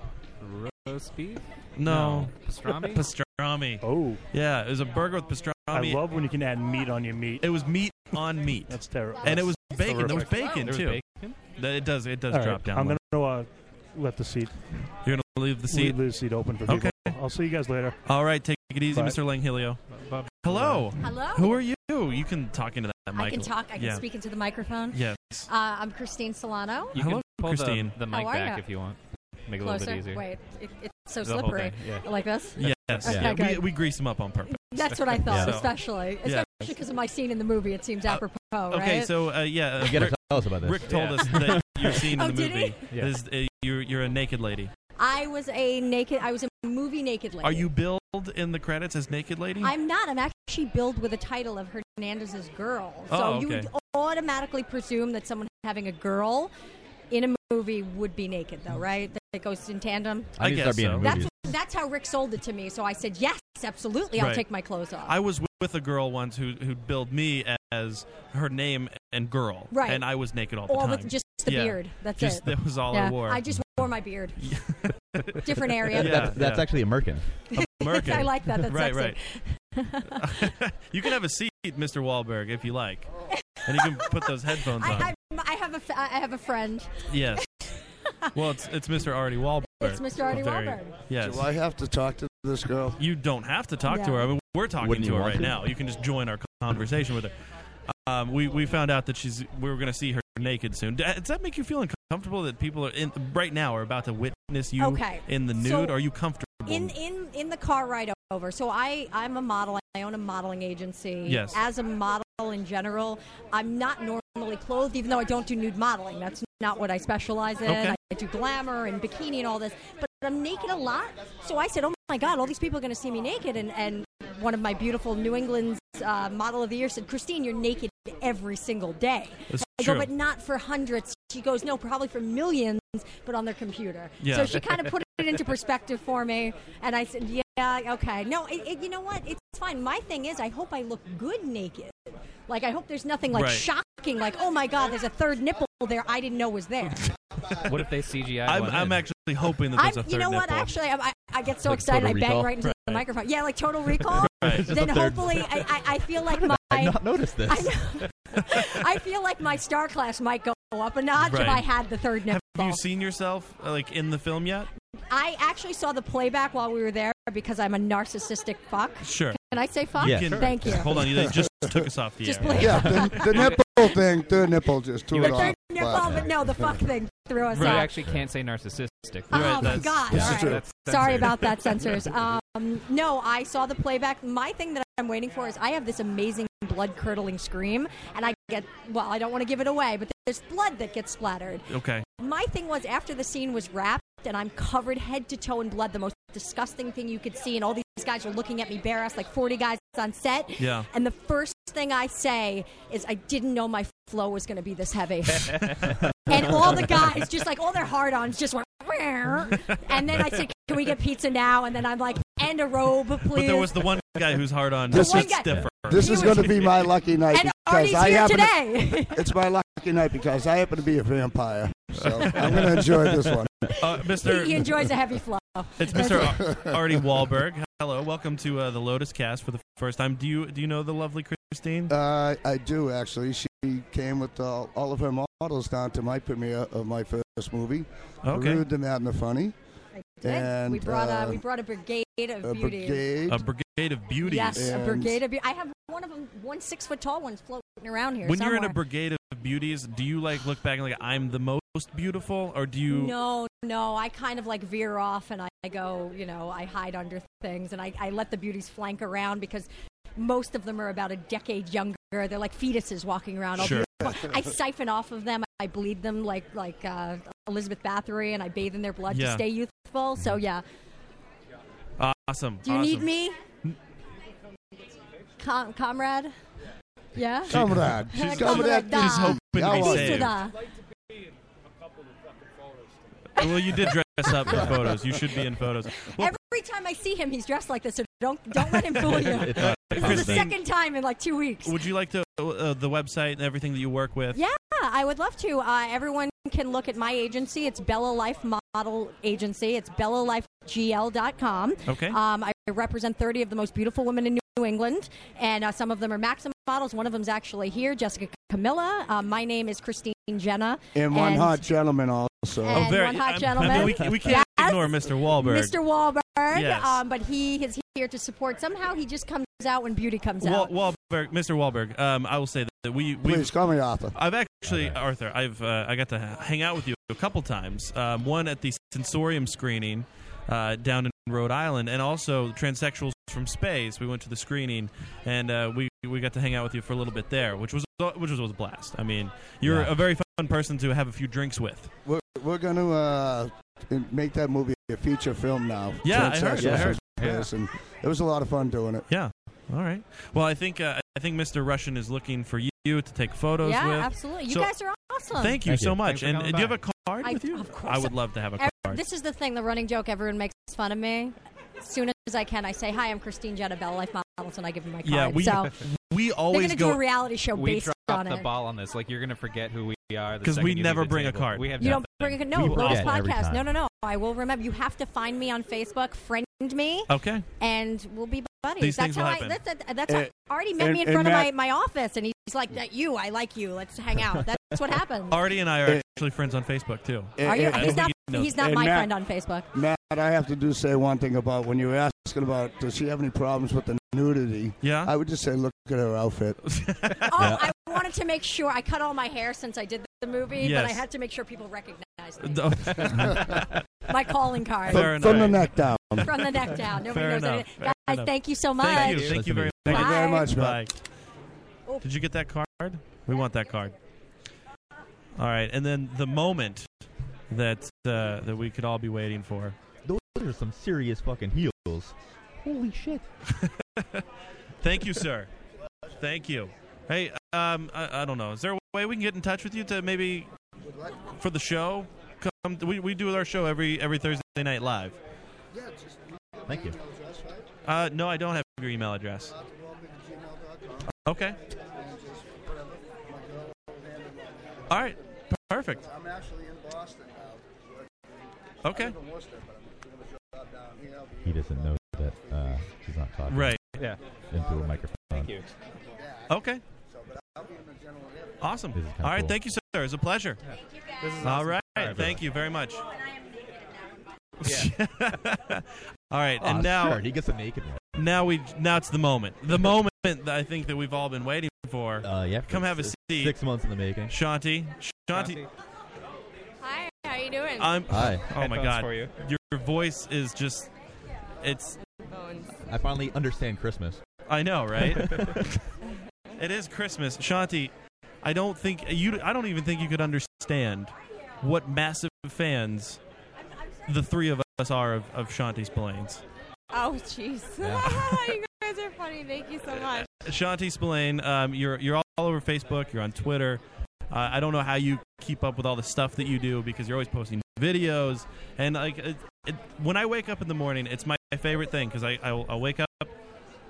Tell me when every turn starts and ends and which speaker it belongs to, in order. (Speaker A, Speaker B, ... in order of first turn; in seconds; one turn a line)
Speaker A: 0.4-3.0
Speaker B: 1.8-6.0
Speaker C: 3.8-4.2
Speaker C: 5.7-7.5
Speaker B: 7.4-13.0
Speaker C: 8.7-9.7
Speaker A: 9.8-11.4
Speaker C: 12.3-14.9
Speaker B: 15.0-17.2
Speaker C: 15.7-18.0
Speaker B: 18.1-19.8
Speaker C: 18.9-19.2
Speaker A: 19.9-20.9
Speaker B: 20.4-24.0
Speaker D: 21.0-21.6
Speaker D: 23.1-27.0
Speaker B: 24.9-25.5
Speaker A: 26.9-30.2
Speaker B: 27.0-28.0
Speaker D: 28.0-28.6
Speaker D: 29.6-33.9
Speaker A: 31.2-32.1
Speaker B: 32.6-36.8
Speaker E: 33.0-33.4
Speaker D: 34.5-39.1
Speaker E: 35.3-35.5
Speaker B: 38.1-44.7
Speaker E: 39.8-41.5
Speaker A: 40.9-41.4
Speaker D: 41.9-42.9
Speaker D: 45.0-47.7
Speaker B: 47.4-49.7
Speaker D: 49.6-56.5
Speaker B: 53.1-53.7
Speaker D: 57.1-60.4
Speaker E: 60.4-61.3
Speaker B: 60.4-61.2
Speaker D: 61.0-65.2
Speaker B: 64.2-64.5
Speaker B: 65.0-73.7
Speaker D: 69.7-74.7
Speaker B: 74.4-77.0
Speaker D: 75.4-76.3
Speaker E: 76.0-77.3
Speaker D: 77.5-80.5
Speaker B: 77.5-79.2
Speaker B: 80.2-85.1
Speaker D: 83.3-88.4
Speaker B: 87.1-87.5
Speaker B: 88.3-91.5
Speaker D: 89.6-91.0
Speaker F: 91.2-93.0
Speaker B: 93.0-97.3
Speaker D: 93.8-94.3
Speaker E: 94.8-95.6
Speaker B: 97.9-107.0
Speaker D: 104.8-106.0
Speaker D: 106.7-147.1
Speaker B: 111.3-111.6
Speaker B: 117.6-118.0
Speaker B: 129.5-130.1
Speaker B: 134.2-134.7
Speaker B: 143.3-143.7
Speaker A: 147.6-149.0
Speaker B: 148.5-150.7
Speaker D: 149.7-162.8
Speaker E: 151.7-152.5
Speaker B: 152.6-153.1
Speaker B: 154.1-154.8
Speaker E: 154.4-155.6
Speaker E: 156.3-157.8
Speaker B: 161.2-161.7
Speaker B: 162.3-164.7
Speaker D: 165.1-171.2
Speaker B: 169.0-169.4
Speaker B: 169.9-173.5
Speaker E: 170.0-170.7
Speaker D: 172.2-173.8
Speaker F: 172.6-176.7
Speaker D: 175.1-178.0
Speaker E: 176.0-176.3
Speaker B: 177.5-177.9
Speaker A: 177.6-181.5
Speaker B: 179.3-180.2
Speaker D: 179.3-213.9
Speaker E: 180.1-180.4
Speaker F: 180.2-180.6
Speaker B: 191.7-192.1
Speaker B: 200.6-200.9
Speaker B: 213.3-216.5
Speaker D: 214.9-219.3
Speaker F: 214.9-215.3
Speaker F: 215.9-223.7
Speaker B: 222.2-222.5
Speaker D: 222.2-222.5
Speaker D: 223.7-226.6
Speaker B: 223.8-224.9
Speaker B: 225.8-231.9
Speaker F: 226.4-226.7
Speaker F: 231.9-239.6
Speaker B: 238.2-238.7
Speaker D: 239.9-243.1
Speaker F: 240.2-241.4
Speaker F: 242.4-243.4
Speaker B: 243.3-244.7
Speaker D: 244.2-248.8
Speaker F: 244.6-245.2
Speaker B: 248.2-253.2
Speaker D: 252.9-270.6
Speaker B: 263.6-263.9
Speaker F: 263.8-264.3
Speaker B: 269.1-269.5
Speaker B: 272.0-273.1
Speaker D: 272.6-273.4
Speaker D: 275.4-276.3
Speaker D: 277.1-280.6
Speaker F: 277.5-280.3
Speaker B: 277.5-280.4
Speaker B: 283.4-286.3
Speaker D: 283.4-284.6
Speaker D: 286.0-291.8
Speaker B: 288.9-290.6
Speaker E: 289.1-290.5
Speaker B: 291.6-294.4
Speaker D: 294.3-311.6
Speaker B: 301.9-302.2
Speaker F: 310.9-312.9
Speaker D: 312.6-320.7
Speaker B: 312.7-315.8
Speaker B: 316.5-317.0
Speaker B: 320.4-323.6
Speaker F: 323.2-324.2
Speaker B: 324.1-341.9
Speaker E: 324.6-325.0
Speaker E: 339.6-339.9
Speaker F: 342.1-349.1
Speaker B: 346.0-347.4
Speaker E: 346.6-347.0
Speaker B: 349.1-354.7
Speaker D: 353.6-355.6
Speaker B: 355.3-359.0
Speaker E: 355.7-356.0
Speaker A: 356.0-356.8
Speaker D: 357.2-365.8
Speaker B: 365.0-367.0
Speaker D: 366.5-368.5
Speaker A: 367.5-372.4
Speaker B: 370.4-372.1
Speaker D: 371.8-385.4
Speaker E: 372.5-373.7
Speaker B: 372.6-373.2
Speaker B: 377.1-377.4
Speaker B: 378.8-379.6
Speaker F: 380.1-381.5
Speaker B: 385.3-388.6
Speaker F: 387.4-389.1
Speaker D: 387.4-389.7
Speaker F: 389.7-396.6
Speaker B: 394.8-395.1
Speaker B: 396.7-397.6
Speaker D: 397.2-405.6
Speaker E: 397.4-397.6
Speaker B: 400.6-401.1
Speaker B: 402.4-403.7
Speaker B: 404.9-405.8
Speaker F: 404.9-406.4
Speaker D: 406.2-409.3
Speaker B: 406.9-411.0
Speaker A: 409.0-409.4
Speaker E: 409.2-410.0
Speaker D: 409.9-410.6
Speaker F: 409.9-410.8
Speaker B: 412.0-413.9
Speaker B: 415.4-416.9
Speaker B: 417.5-419.8
Speaker E: 420.0-423.2
Speaker B: 423.5-424.2
Speaker B: 424.8-425.5
Speaker B: 426.2-430.5
Speaker B: 431.4-435.2
Speaker F: 435.7-437.7
Speaker E: 436.7-437.0
Speaker B: 437.9-439.5
Speaker F: 439.5-441.1
Speaker B: 441.1-441.6
Speaker F: 441.9-445.0
Speaker B: 444.9-446.0
Speaker F: 446.0-447.8
Speaker B: 448.8-449.2
Speaker F: 448.9-451.7
Speaker E: 451.4-453.8
Speaker B: 453.5-454.0
Speaker E: 454.5-455.6
Speaker F: 454.5-454.9
Speaker A: 455.3-455.7
Speaker B: 456.5-456.8
Speaker F: 457.1-458.6
Speaker B: 458.6-460.6
Speaker E: 458.9-459.6
Speaker A: 460.7-462.4
Speaker B: 461.4-463.0
Speaker E: 462.0-462.4
Speaker B: 464.6-467.2
Speaker A: 464.6-464.9
Speaker E: 466.6-468.2
Speaker B: 468.2-473.6
Speaker E: 472.2-474.4
Speaker B: 474.3-475.6
Speaker A: 475.3-475.7
Speaker G: 476.8-478.0
Speaker B: 477.8-480.9
Speaker E: 478.1-478.4
Speaker A: 478.5-479.3
Speaker B: 481.6-482.0
Speaker G: 482.0-482.8
Speaker E: 482.8-484.2
Speaker B: 484.5-485.6
Speaker E: 485.0-485.6
Speaker B: 486.6-493.2
Speaker B: 494.1-496.4
Speaker G: 496.9-500.3
Speaker E: 497.8-498.1
Speaker B: 500.1-513.3